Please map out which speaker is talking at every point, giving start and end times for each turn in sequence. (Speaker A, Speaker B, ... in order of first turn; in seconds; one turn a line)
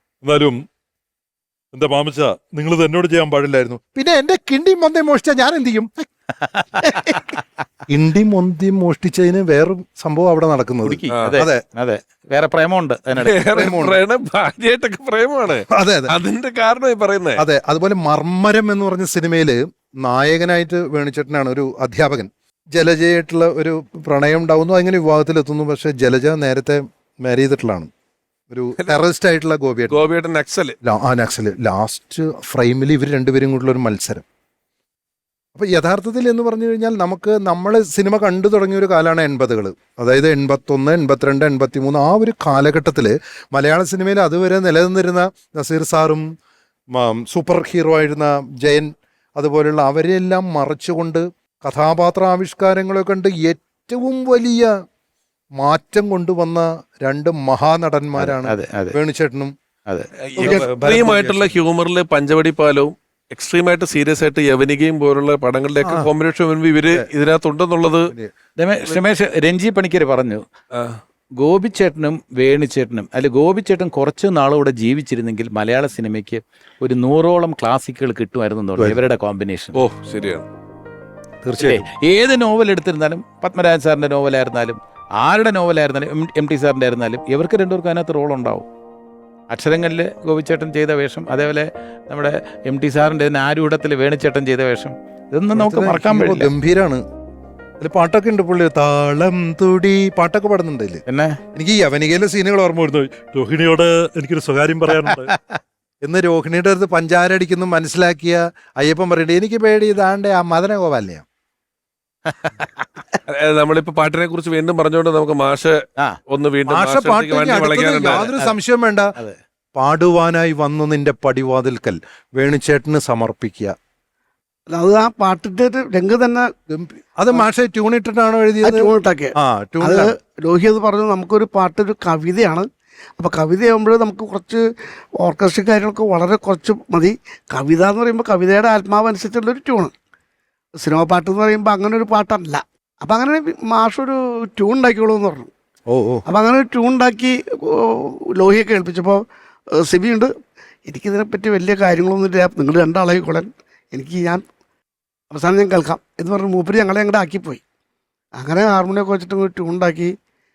Speaker A: 0.2-0.6
Speaker A: 1.7-6.1
Speaker B: 6.5-7.2
Speaker A: 6.8-7.2
Speaker A: 7.9-11.6
Speaker B: 10.8-13.7
Speaker C: 13.1-17.4
Speaker A: 13.5-14.0
Speaker A: 15.7-16.1
Speaker A: 17.4-27.9
Speaker A: 28.5-30.0
Speaker C: 29.9-30.7
Speaker A: 30.8-34.2
Speaker A: 35.5-46.3
Speaker A: 46.9-54.7
Speaker A: 55.6-59.5
Speaker B: 58.2-59.0
Speaker C: 60.3-68.1
Speaker A: 60.4-61.6
Speaker A: 65.8-66.1
Speaker B: 68.6-70.4
Speaker B: 71.4-79.8
Speaker C: 79.7-80.5
Speaker A: 81.4-81.9
Speaker B: 81.6-88.7
Speaker B: 89.5-96.5
Speaker A: 95.5-97.0
Speaker A: 97.8-101.0
Speaker B: 101.1-101.4
Speaker A: 101.5-105.3
Speaker B: 104.9-105.3
Speaker A: 106.0-111.2
Speaker B: 112.3-112.9
Speaker C: 113.3-115.8
Speaker C: 116.3-118.3
Speaker A: 116.7-119.1
Speaker A: 119.8-123.7
Speaker D: 124.7-126.5
Speaker A: 126.7-130.1
Speaker D: 128.6-132.7
Speaker D: 133.2-134.6
Speaker D: 135.2-139.9
Speaker D: 140.8-145.5
Speaker A: 145.9-146.2
Speaker D: 146.3-149.2
Speaker D: 149.8-150.3
Speaker D: 150.9-154.4
Speaker D: 155.3-157.6
Speaker D: 158.3-160.1